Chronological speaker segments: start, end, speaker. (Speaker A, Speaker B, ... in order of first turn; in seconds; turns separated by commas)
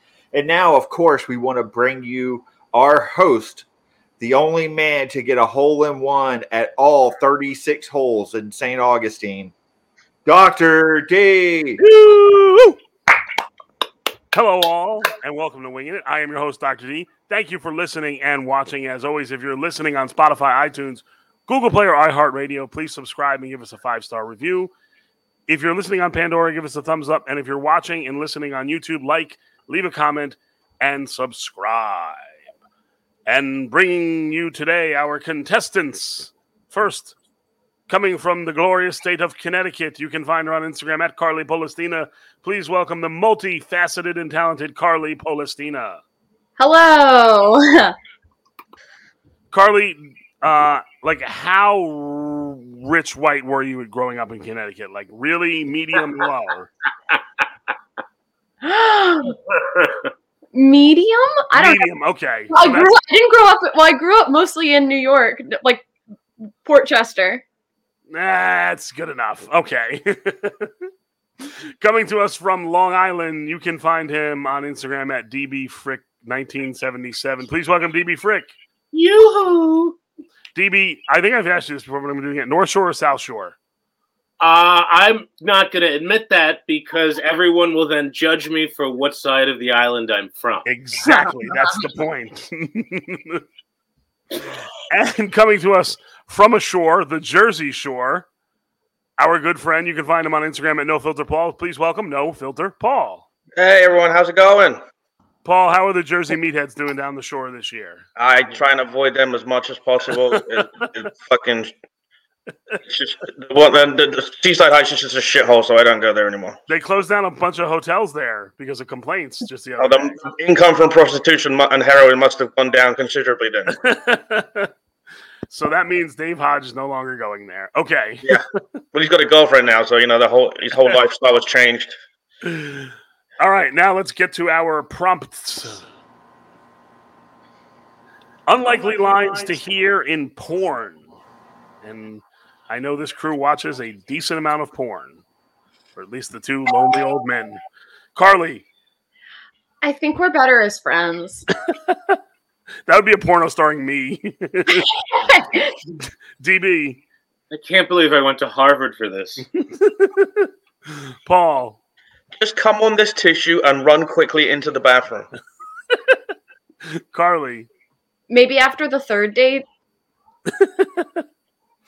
Speaker A: 0.3-3.6, Speaker A: 4.2-9.5, Speaker A: 10.2-11.8, Speaker B: 11.8-12.8, Speaker B: 14.3-24.7, Speaker B: 25.5-32.3, Speaker B: 33.3-37.1, Speaker B: 37.9-46.0, Speaker C: 46.6-47.9, Speaker B: 49.5-56.7, Speaker C: 58.6-59.4, Speaker D: 59.5-60.1, Speaker C: 60.5-61.9, Speaker B: 61.5-62.9, Speaker C: 62.5-65.8, Speaker C: 66.6-67.4, Speaker B: 68.1-70.7, Speaker B: 71.4-78.5, Speaker D: 78.9-80.0, Speaker B: 80.5-83.5, Speaker D: 84.4-90.7, Speaker B: 90.7-93.4, Speaker C: 91.0-91.8, Speaker B: 94.9-98.2, Speaker B: 99.2-103.2, Speaker E: 103.6-104.8, Speaker B: 105.4-108.0, Speaker E: 108.2-111.7, Speaker B: 110.3-110.9, Speaker E: 112.8-116.6, Speaker B: 116.7-120.2, Speaker E: 119.8-123.7, Speaker B: 123.7-124.7, Speaker B: 125.5-128.4, Speaker E: 128.2-132.0, Speaker B: 132.4-135.8, Speaker B: 138.5-141.1, Speaker B: 141.8-145.2, Speaker B: 145.9-147.6, Speaker B: 148.1-148.7, Speaker C: 149.8-151.5, Speaker B: 151.7-152.2, Speaker B: 152.8-154.9, Speaker C: 154.8-155.7, Speaker B: 156.4-157.0, Speaker D: 157.5-159.4, Speaker B: 159.5-161.8, Speaker E: 162.4-165.3, Speaker B: 165.9-166.2, Speaker B: 166.8-167.7, Speaker C: 168.3-169.6, Speaker B: 170.5-171.2